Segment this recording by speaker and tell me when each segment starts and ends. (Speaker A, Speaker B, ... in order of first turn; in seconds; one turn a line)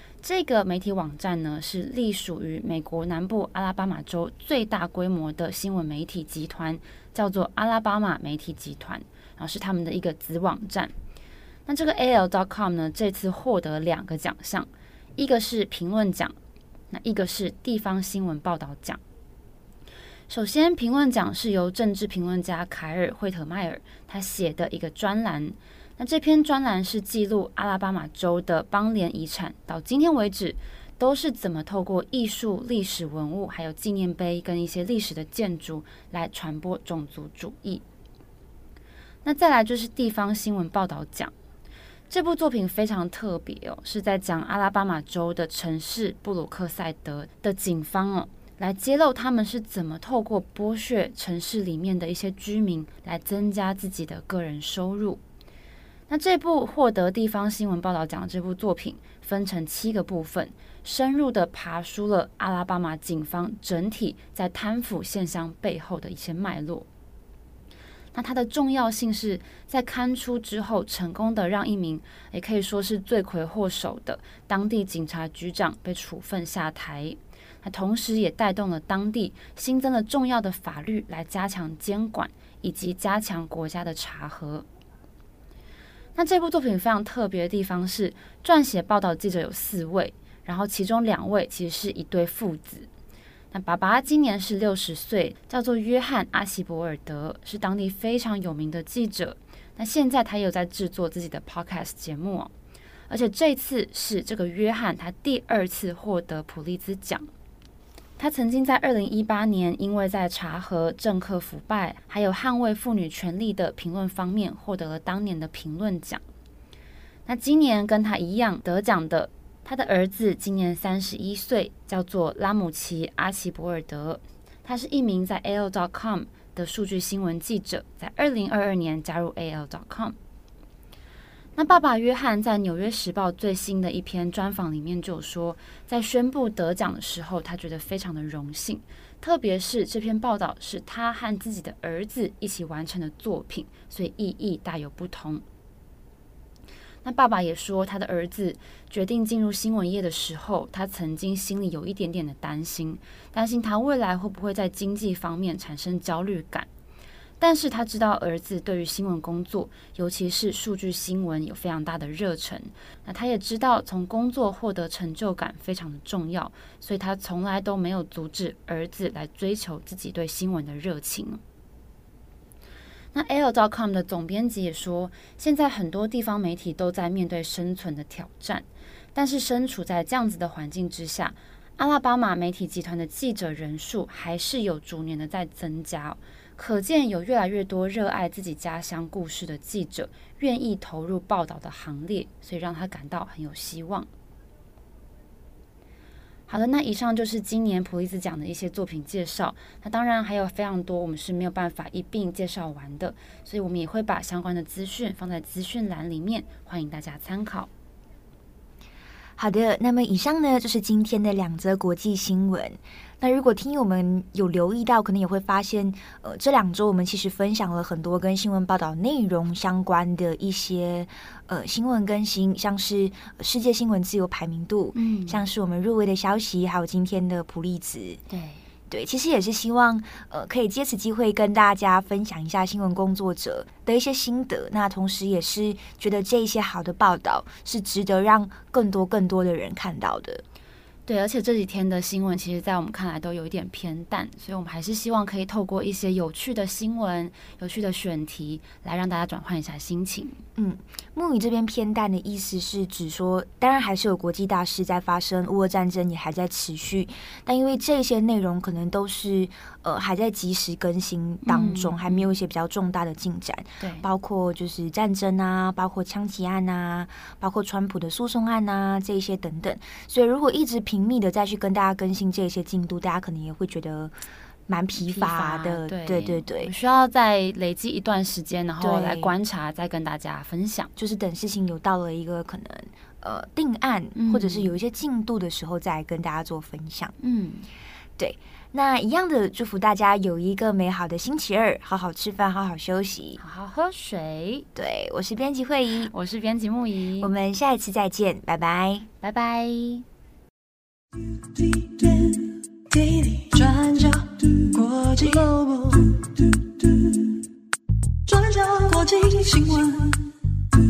Speaker A: 0.2-10.9
Speaker A: 11.7-16.4
Speaker A: 16.9-19.0
Speaker A: 20.3-37.8
Speaker A: 39.2-41.3
Speaker A: 42.1-55.2
Speaker A: 56.1-66.9
Speaker A: 68.1-84.7
Speaker A: 86.1-92.9
Speaker A: 93.5-102.5
Speaker A: 103.1-107.3
Speaker A: 108.2-116.2
Speaker A: 117.2-130.2
Speaker A: 131.6-145.4
Speaker A: 147.0-156.7
Speaker A: 157.4-171.4
Speaker A: 173.1-194.1
Speaker A: 196.5-207.7
Speaker B: 209.4-228.2
Speaker A: 224.9-225.5
Speaker A: 228.3-228.6
Speaker B: 228.9-240.4
Speaker A: 241.1-250.4
Speaker B: 250.6-274.1
Speaker A: 261.4-262.3
Speaker A: 263.8-264.1
Speaker B: 274.7-276.7
Speaker A: 275.0-280.9
Speaker B: 278.8-279.3
Speaker B: 281.0-287.1
Speaker A: 284.1-284.7
Speaker A: 287.2-287.7
Speaker B: 288.2-293.4
Speaker A: 293.4-294.7
Speaker B: 294.8-296.1
Speaker A: 296.1-297.3
Speaker B: 297.2-299.1
Speaker A: 299.2-300.1
Speaker C: 301.6-306.4
Speaker C: 308.2-310.3